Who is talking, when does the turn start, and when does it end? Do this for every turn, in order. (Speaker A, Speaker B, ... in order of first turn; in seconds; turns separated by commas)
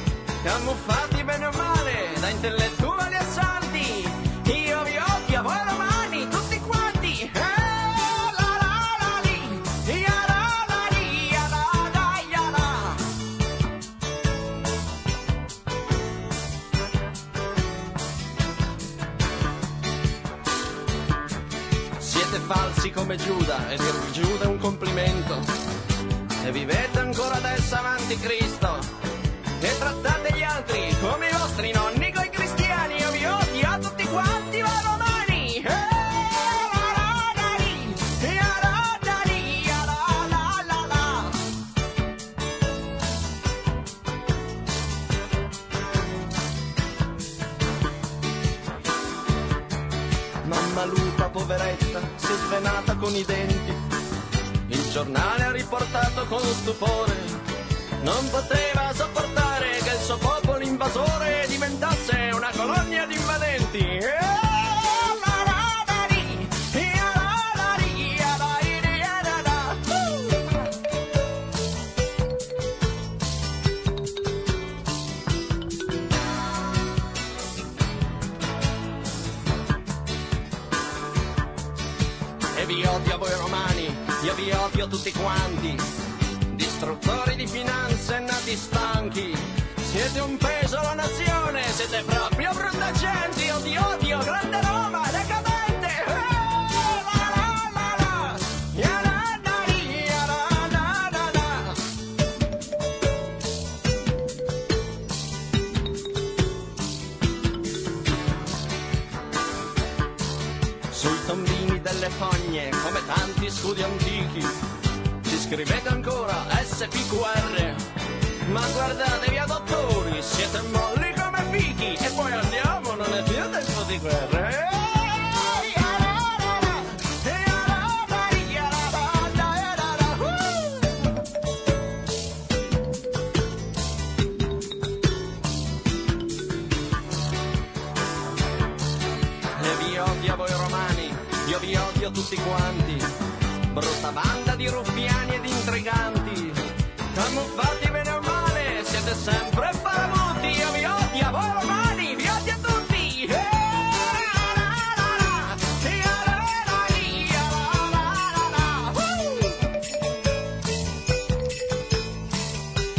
Speaker A: 0.4-13.0, Speaker A: 22.0-25.5, Speaker A: 26.4-28.9, Speaker A: 29.6-41.4, Speaker A: 50.4-53.8, Speaker A: 54.7-57.4, Speaker A: 58.0-70.5, Speaker A: 82.5-85.9, Speaker A: 86.5-101.8, Speaker A: 110.9-114.5, Speaker A: 115.2-117.8, Speaker A: 118.5-130.9, Speaker A: 139.6-143.1, Speaker A: 143.7-146.6, Speaker A: 147.1-159.6